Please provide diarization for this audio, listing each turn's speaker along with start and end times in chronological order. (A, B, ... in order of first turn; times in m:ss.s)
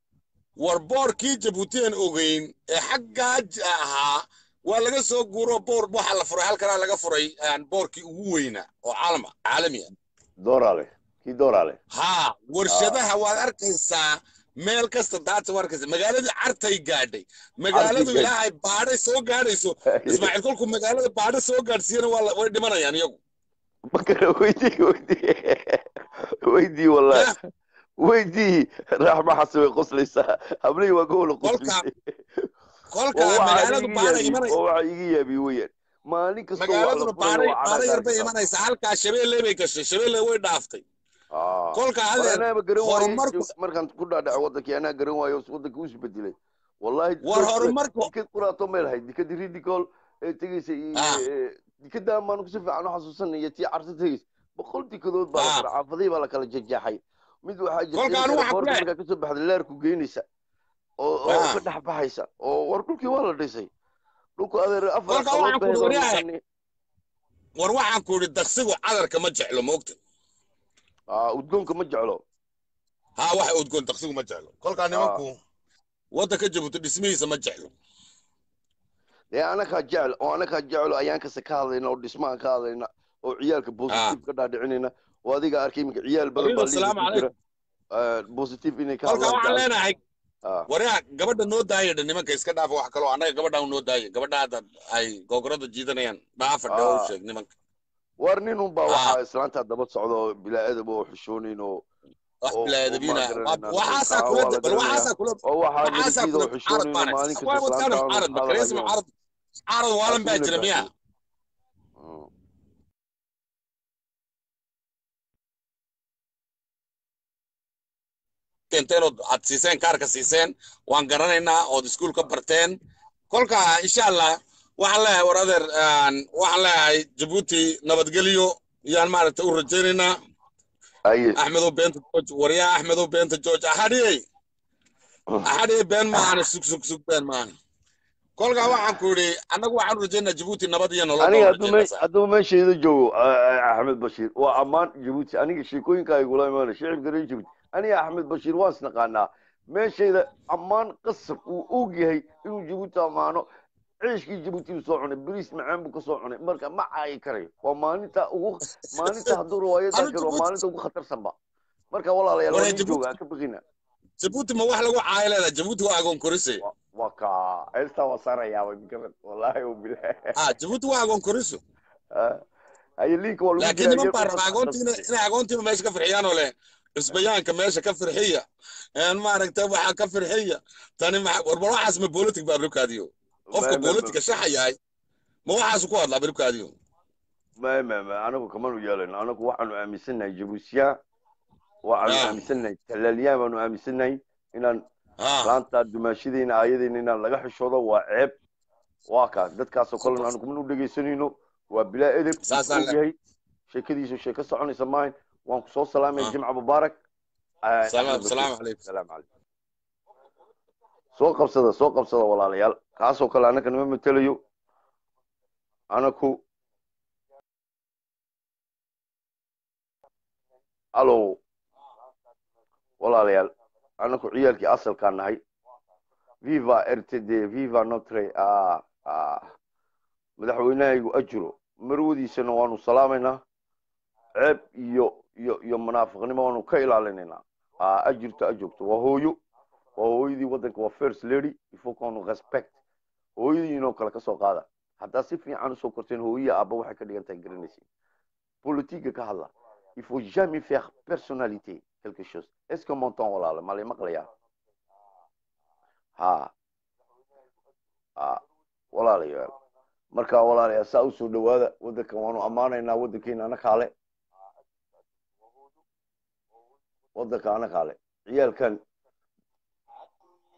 0:00.6-0:09.9 A
0:10.4-0:11.8 B
0:11.9-0:23.2 A
0:12.7-0:13.0 B
0:17.7-0:18.3 B
0:19.9-0:20.3 B
0:23.9-0:25.8 B
0:26.4-0:27.3 B
0:28.0-0:32.5 B
0:31.4-0:31.8 A
0:32.9-0:34.5 A
0:33.1-0:38.3 B
0:36.6-0:40.8 A
0:41.3-1:00.2 B
0:41.7-0:43.5 A
0:47.2-0:48.1 A
0:50.9-0:51.2 A
0:55.4-0:55.6 A
0:57.9-0:58.8 A
1:01.0-1:03.7 B
1:01.3-1:01.6 A
1:04.4-1:06.4 B
1:05.1-1:06.2 A
1:07.6-1:10.0 A
1:11.1-1:12.2 B
1:13.2-1:15.4 A
1:14.9-1:15.2 B
1:16.1-1:17.7 A
1:19.3-1:27.3 B
1:23.9-1:24.2 A
1:26.4-1:27.3 A
1:27.9-1:29.7 B
1:29.0-1:30.0 A
1:30.7-1:37.5 A
1:36.7-1:37.1 B
1:38.2-1:41.8 B
1:38.9-1:39.2 A
1:42.4-1:49.1 A
1:42.5-1:48.9 B
1:49.7-1:50.9 A
1:50.0-1:50.9 B
1:52.0-1:52.3 B
1:58.7-2:02.7 A
2:03.3-2:10.1 A
2:11.1-2:11.4 B
2:11.4-2:14.2 A
2:15.4-2:17.5 A
2:16.1-2:16.4 B
2:18.4-2:22.0 A
2:21.2-2:33.4 B
2:34.0-2:41.3 B
2:39.0-2:39.4 A
2:39.9-2:40.6 A
2:41.9-2:43.6 B
2:42.5-2:43.2 A
2:44.2-2:46.6 A
2:46.6-2:50.3 B
2:50.3-2:51.6 A
2:52.1-2:52.4 B
2:53.0-2:55.0 B
2:53.6-2:58.4 A
2:59.0-3:04.8 A
3:03.5-3:04.2 B
3:05.4-3:06.7 A
3:07.6-3:11.0 B
3:11.8-3:14.8 B
3:12.0-3:12.4 A
3:15.2-3:15.5 A
3:15.4-3:18.4 B
3:19.1-3:23.1 B
3:20.0-3:20.3 A
3:22.4-3:23.0 A
3:23.7-3:27.0 B
3:27.6-3:29.2 B
3:27.9-3:28.8 A
3:31.2-3:34.4 B
3:35.9-3:36.4 B
3:40.9-3:41.4 B
3:43.0-3:45.4 B
3:46.4-3:49.5 B
3:50.4-3:53.4 B
3:54.4-3:59.4 B
4:00.0-4:02.7 B
4:03.4-4:07.8 B
4:08.6-4:14.3 B
4:16.2-4:16.5 B
4:18.2-4:18.4 B
4:18.9-4:19.5 B
4:20.1-4:23.9 B
4:27.1-4:28.8 B